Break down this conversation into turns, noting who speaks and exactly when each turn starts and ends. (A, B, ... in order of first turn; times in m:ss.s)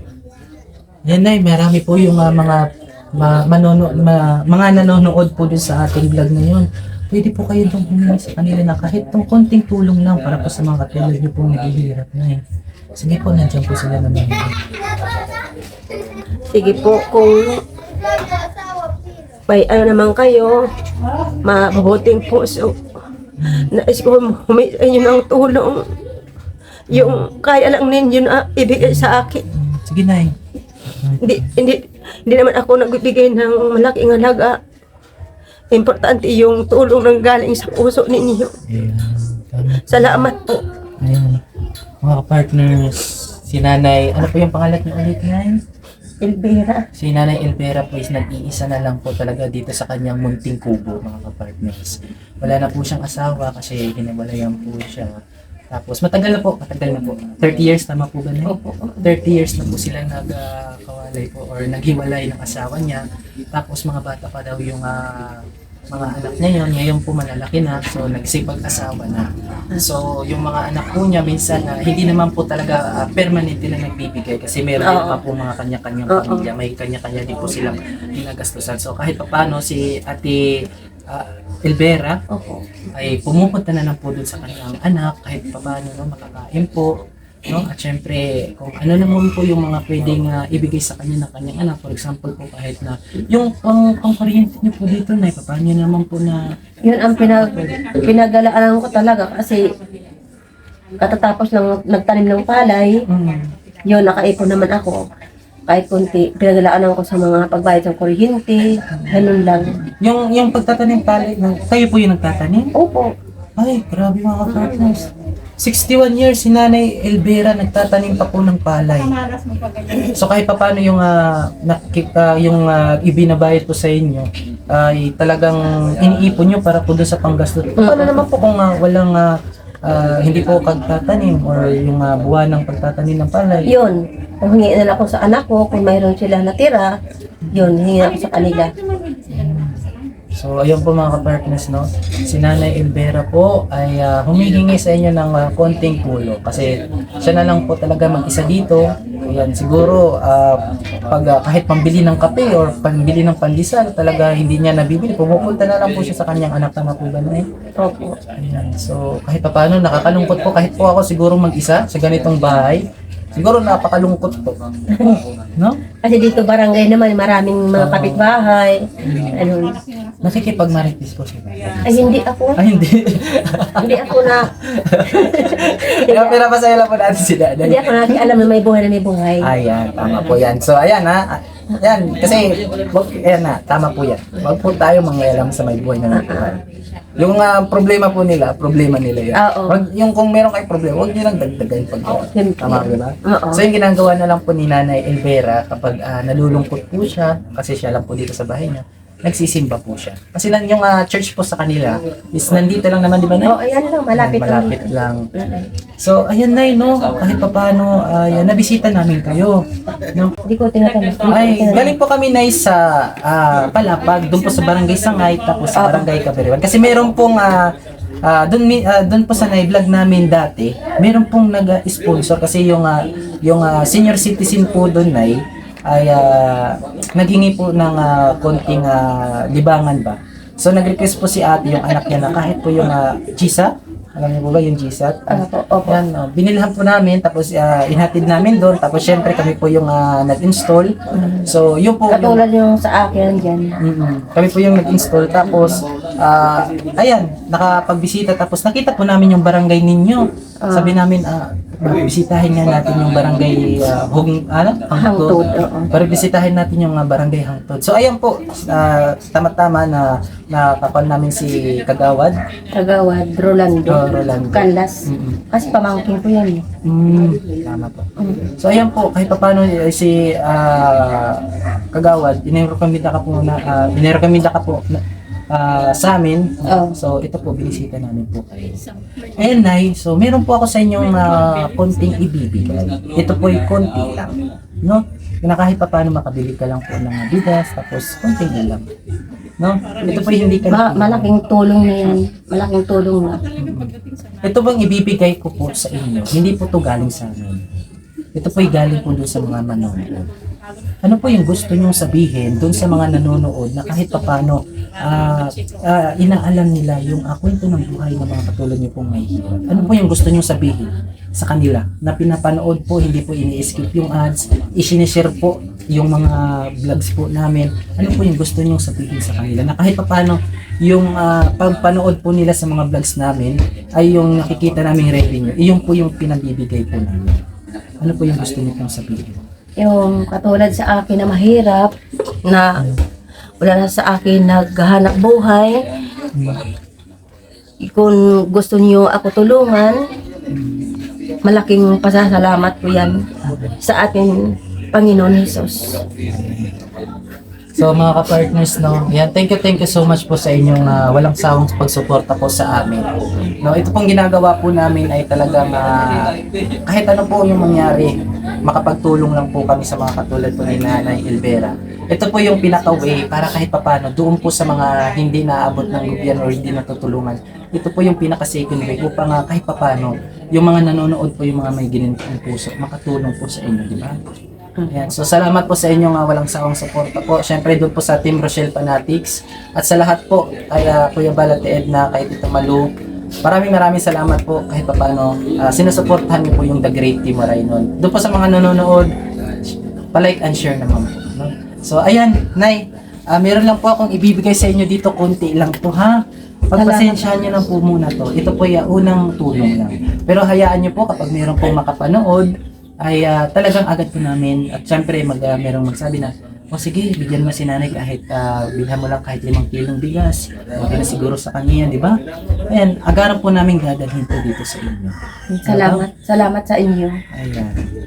0:01.0-0:12.4 A
0:13.0-0:14.8 A
0:16.5-0:17.6 B
0:19.5-0:20.7 B
0:21.4-0:22.8 B
0:23.4-0:23.7 A
0:23.6-0:25.9 B
0:26.9-0:29.4 B
0:26.9-0:27.3 A
0:28.8-0:30.4 A
0:30.9-0:31.5 A
0:31.2-0:34.6 B
0:35.7-0:38.6 B
0:38.7-0:40.3 A
0:39.9-0:40.6 B
0:41.0-0:41.4 A
0:42.0-0:45.6 A
0:46.2-0:46.8 B
0:47.0-0:55.1 A
0:55.7-1:22.2 A
0:58.5-0:59.1 B
1:14.8-1:15.2 B
1:16.1-1:16.5 B
1:22.3-1:22.6 B
1:23.0-1:26.9 A
1:27.5-1:36.4 A
1:36.8-1:39.6 B
1:37.3-1:37.9 A
1:41.0-1:43.0 B
1:43.1-1:43.5 A
1:43.9-1:45.0 B
1:45.7-1:49.8 B
1:48.9-1:52.7 A
1:52.8-1:53.1 B
1:53.6-1:59.2 A
1:54.5-1:54.9 B
1:59.9-2:13.8 A
2:07.8-2:08.3 B
2:13.7-2:16.9 B
2:17.4-2:17.8 A
2:17.5-2:18.7 B
2:19.3-2:19.8 A
2:20.4-2:37.5 A
2:37.8-2:38.2 B
2:38.3-2:45.8 A
2:46.0-2:49.8 B
2:47.8-2:48.3 A
2:49.0-2:49.5 A
2:50.2-2:58.3 A
2:51.8-2:52.6 B
2:53.8-2:54.5 B
2:55.1-2:56.4 B
2:57.6-2:59.5 B
2:59.4-3:06.5 A
3:06.1-3:06.6 B
3:07.2-3:23.6 A
3:09.4-3:09.8 B
3:12.2-3:13.6 B
3:23.4-3:25.7 B
3:24.1-3:25.3 A
3:26.0-3:30.4 A
3:30.4-3:32.0 B
3:31.2-4:02.4 A
3:35.8-3:36.1 B
3:55.3-3:56.0 B
4:01.1-4:01.5 B
4:02.1-4:03.8 B
4:03.8-4:22.4 A
4:05.5-4:05.8 B
4:10.6-4:11.0 B
4:15.0-4:15.9 B
4:22.7-4:26.6 B
4:23.9-4:25.4 A
4:26.8-4:38.9 A
4:28.2-4:28.5 B
4:36.6-4:37.0 B
4:39.4-4:48.8 A
4:49.6-4:51.3 A
4:50.0-4:53.4 B
4:53.6-4:57.6 A
4:58.4-5:00.3 A
5:01.0-5:27.4 A
5:28.0-5:29.4 A
5:29.8-5:31.9 B
5:32.5-5:32.8 B
5:33.6-5:35.8 B
5:36.3-5:36.6 A
5:37.8-5:40.0 B
5:40.5-5:41.0 A
5:41.4-5:43.2 B
5:43.4-5:43.8 A
5:43.8-5:46.0 B
5:46.2-5:46.8 A
5:47.8-6:14.2 A
6:14.8-6:15.1 B
6:14.9-6:22.9 A
6:23.4-6:55.2 A
6:36.7-6:37.2 B
6:55.5-6:57.2 B
6:55.7-6:56.1 A
6:57.3-6:57.8 A